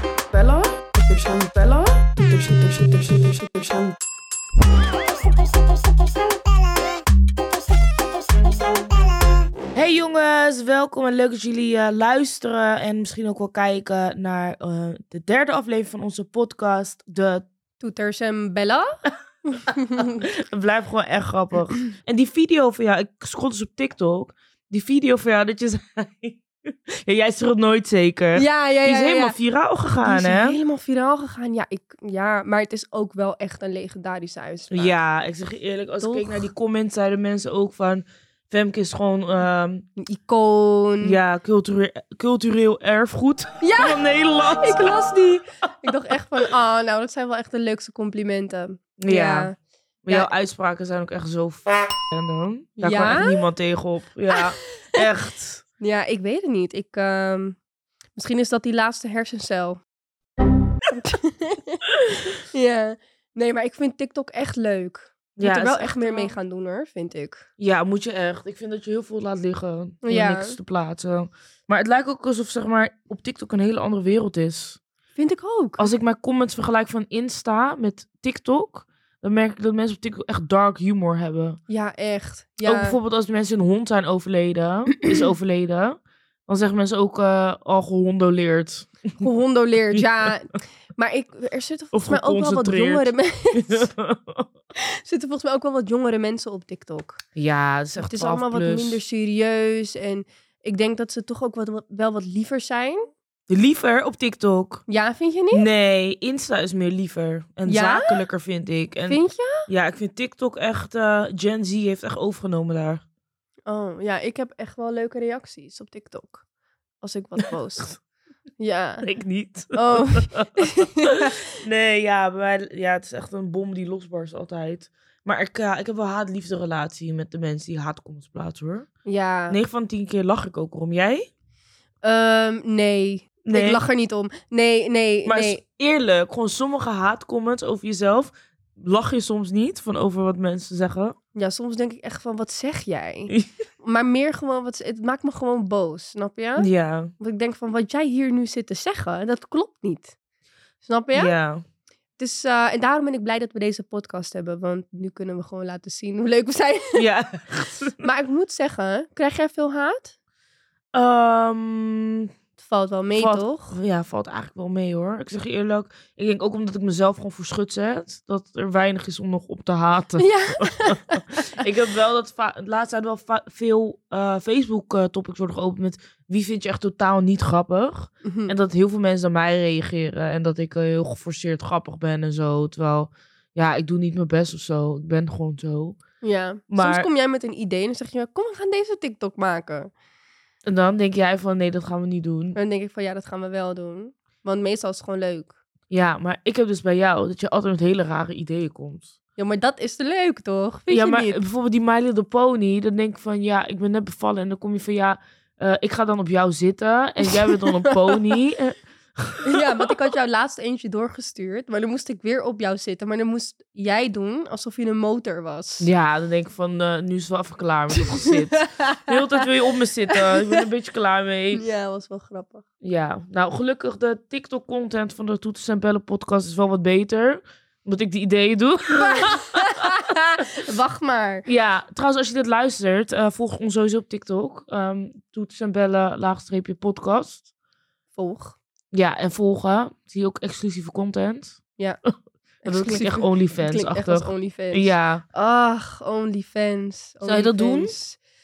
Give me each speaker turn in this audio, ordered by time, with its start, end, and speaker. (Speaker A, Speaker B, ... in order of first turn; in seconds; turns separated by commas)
Speaker A: 0.3-3.9, Speaker B: 9.7-17.4, Speaker C: 17.8-20.2, Speaker B: 20.0-30.6, Speaker C: 28.3-29.4, Speaker C: 30.0-34.9, Speaker B: 34.7-39.9, Speaker C: 36.0-36.5, Speaker C: 40.0-41.2, Speaker B: 41.0-45.0, Speaker C: 43.6-44.0, Speaker C: 44.6-49.5, Speaker B: 49.0-49.5, Speaker B: 50.0-55.6, Speaker C: 52.8-53.4, Speaker C: 55.8-57.6, Speaker C: 58.1-59.8, Speaker C: 60.9-67.5, Speaker B: 65.4-66.3, Speaker B: 67.6-74.8, Speaker C: 70.0-70.6, Speaker C: 75.1-75.9, Speaker B: 75.8-81.6, Speaker C: 81.7-83.0, Speaker B: 82.6-89.2, Speaker C: 89.2-93.9, Speaker B: 91.9-94.5, Speaker C: 95.0-97.2, Speaker B: 97.3-99.0, Speaker C: 98.0-103.0, Speaker B: 103.5-104.8, Speaker C: 104.9-105.7, Speaker B: 105.5-113.0, Speaker C: 107.7-108.2, Speaker C: 109.1-109.7, Speaker C: 113.7-116.4, Speaker C: 117.0-117.9, Speaker C: 118.6-119.0, Speaker B: 119.0-128.9, Speaker C: 119.7-121.4, Speaker C: 129.0-129.6, Speaker B: 129.5-131.3, Speaker C: 132.0-135.6, Speaker B: 133.4-133.8, Speaker B: 135.2-141.2, Speaker C: 141.3-150.1, Speaker B: 146.6-147.1, Speaker C: 150.8-151.3, Speaker B: 151.1-151.6, Speaker C: 152.2-157.0, Speaker B: 156.9-158.0, Speaker C: 158.0-160.1, Speaker B: 160.9-162.3, Speaker C: 162.6-163.8, Speaker B: 163.2-186.0, Speaker C: 170.2-171.5, Speaker C: 178.2-178.6, Speaker C: 186.2-189.9, Speaker B: 186.7-187.1, Speaker B: 190.7-192.6, Speaker C: 192.6-195.6, Speaker B: 195.9-199.1, Speaker C: 199.4-201.4, Speaker B: 200.9-209.6, Speaker C: 207.3-208.1, Speaker C: 209.4-215.9, Speaker B: 215.8-221.6, Speaker C: 218.2-219.4, Speaker C: 220.1-220.6, Speaker C: 221.5-222.6, Speaker B: 222.8-229.8, Speaker C: 229.0-231.4, Speaker B: 231.4-237.4, Speaker C: 238.1-238.6, Speaker B: 238.9-241.6, Speaker C: 242.6-248.2, Speaker B: 242.7-245.2, Speaker B: 247.2-247.9